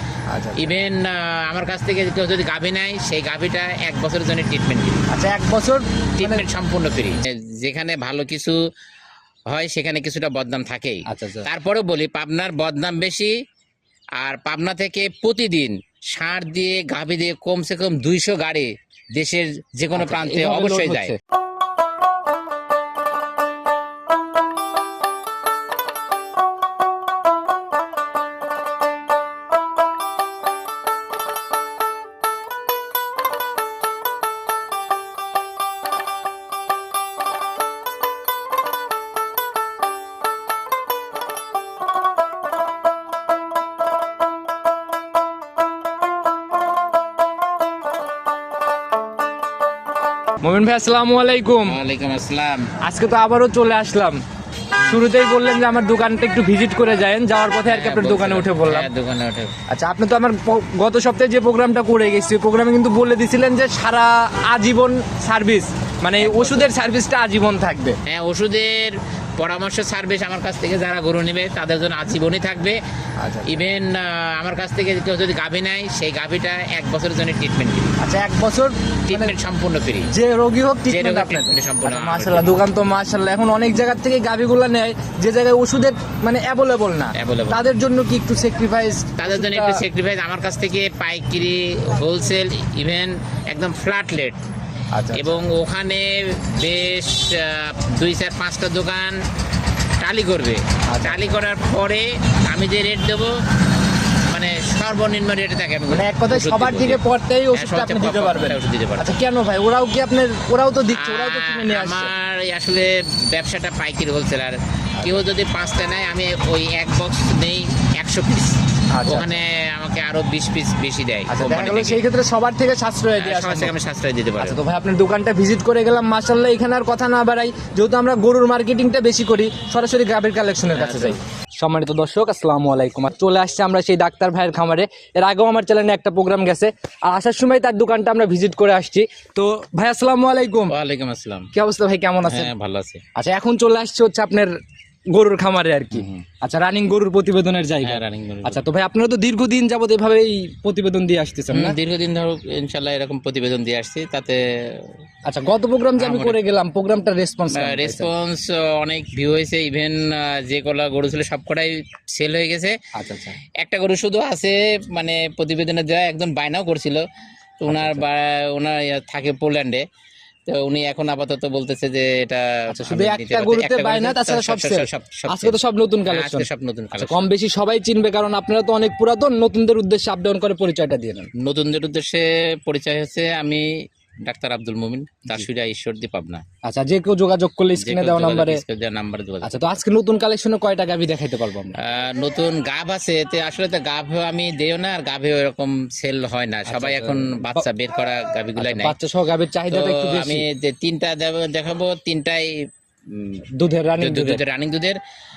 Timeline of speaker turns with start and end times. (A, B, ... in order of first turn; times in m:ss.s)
0:00.3-0:00.7 A
0:00.6-0:05.0 B
0:05.1-0:06.4 A
0:06.2-0:08.6 B
0:09.5-0:13.3 B
0:11.1-0:11.5 A
0:14.2-0:21.1 B
0:19.9-0:21.2 A
0:50.4-0:51.8 A
0:51.6-0:52.7 B
0:52.8-0:54.2 A
0:54.8-0:58.9 A
0:57.7-0:59.5 B
0:59.7-1:08.0 A
1:06.2-1:06.7 B
1:08.0-1:12.8 B
1:13.2-1:13.6 A
1:13.5-1:17.9 B
1:18.0-1:19.3 A
1:19.1-1:20.1 B
1:20.1-1:29.8 A
1:20.9-1:22.6 B
1:27.1-1:27.6 B
1:29.2-1:34.4 B
1:34.9-1:35.4 A
1:35.1-1:39.2 B
1:40.0-1:43.4 B
1:40.9-1:41.2 A
1:44.1-1:47.0 B
1:45.9-1:52.1 A
1:47.5-1:49.1 B
1:50.9-2:02.0 B
1:55.0-1:55.3 A
1:58.9-1:59.3 A
2:01.3-2:03.7 A
2:03.2-2:04.6 B
2:04.4-2:20.7 A
2:10.7-2:11.2 B
2:20.7-2:21.5 B
2:21.5-2:22.5 A
2:22.2-2:23.0 B
2:23.2-2:24.5 A
2:25.1-2:31.8 A
2:25.9-2:26.2 B
2:27.8-2:28.6 B
2:31.5-2:34.9 B
2:35.2-2:38.1 A
2:36.0-2:36.4 B
2:37.5-2:42.8 B
2:42.9-2:43.4 A
2:43.6-2:47.0 B
2:47.6-2:49.8 B
2:47.7-2:48.0 A
2:50.5-2:55.6 B
2:52.7-3:01.3 A
2:56.1-2:57.3 B
3:01.4-3:03.7 B
3:04.2-3:06.4 B
3:06.6-3:08.6 A
3:07.8-3:09.7 B
3:09.4-3:11.8 A
3:11.8-3:18.9 B
3:16.7-3:17.6 A
3:18.6-3:20.4 A
3:19.7-3:22.6 B
3:23.1-3:23.4 B
3:23.6-3:24.4 A
3:24.0-3:25.0 B